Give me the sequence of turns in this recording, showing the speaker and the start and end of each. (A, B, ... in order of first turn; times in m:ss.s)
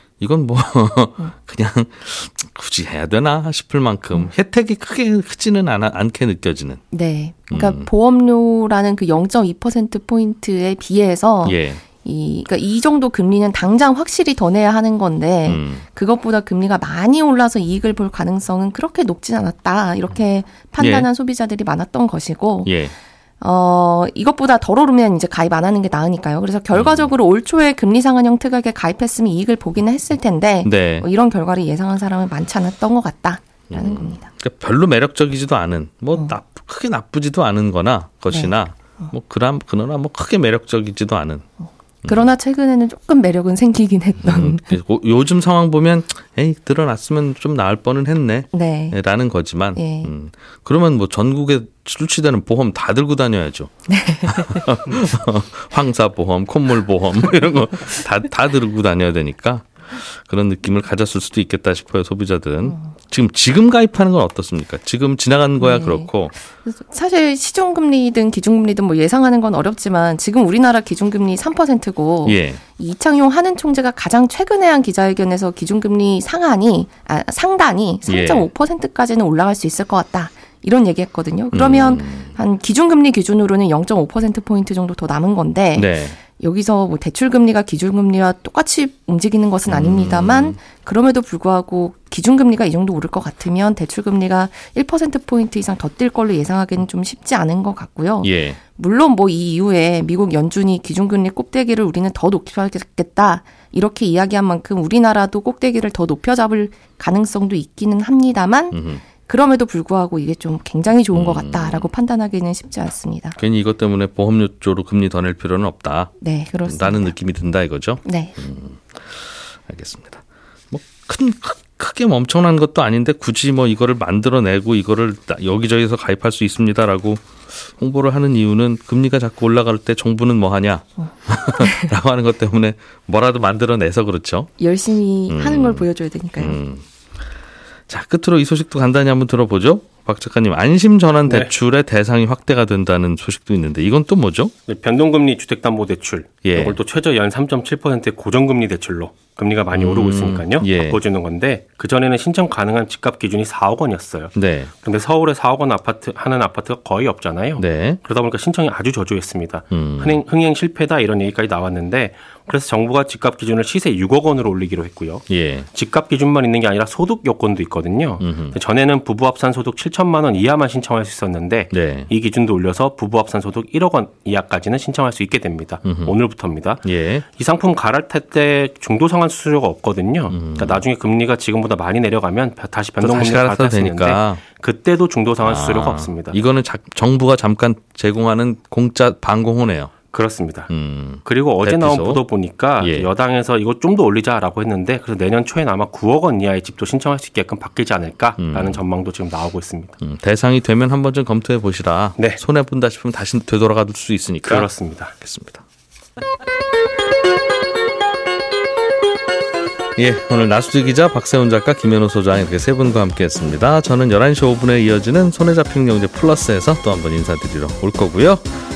0:00.2-0:06.8 A
0:06.9-0:22.7 B
0:07.5-0:07.9 A
0:11.4-0:11.8 A
0:15.4-0:15.8 A
0:20.8-0:21.1 A
0:22.6-0:22.9 A
0:23.4-0:34.3 B
0:26.7-0:27.1 A
0:30.6-0:31.0 A
0:33.7-0:41.4 A
0:38.3-0:39.1 B
0:42.0-0:44.7 B
0:44.2-1:06.3 A
0:48.5-0:49.0 B
0:49.8-0:50.1 B
0:53.9-0:54.6 B
1:05.6-1:06.1 B
1:06.6-1:53.4 B
1:12.2-1:12.6 A
1:18.1-1:18.5 A
1:21.5-1:22.3 A
1:25.7-1:26.2 A
1:29.7-1:30.6 A
1:38.2-1:38.6 A
1:48.7-1:49.0 A
1:51.1-1:51.9 A
1:53.4-1:56.1 A
1:56.2-1:57.1 B
1:56.6-2:14.5 A
1:58.0-1:58.3 B
2:11.6-2:11.9 B
2:14.6-2:16.6 B
2:15.3-2:15.9 A
2:16.4-2:16.8 A
2:17.9-2:24.5 A
2:24.7-2:56.8 C
2:26.4-2:26.8 A
2:29.7-2:31.0 A
2:34.3-2:34.7 A
2:37.6-2:38.0 A
2:39.7-2:40.2 A
2:45.3-2:45.7 A
2:48.2-2:48.6 A
2:51.7-2:52.1 A
2:55.8-2:56.1 A
2:56.8-2:57.2 A
2:57.4-3:06.4 C
3:00.3-3:00.8 A
3:03.0-3:04.4 A
3:05.4-3:09.9 A
3:10.1-3:10.7 C
3:10.7-3:12.2 A
3:11.2-3:20.0 C
3:12.8-3:13.1 A
3:18.4-3:18.8 A
3:20.0-3:25.6 A
3:24.5-3:25.1 C
3:30.0-3:38.5 A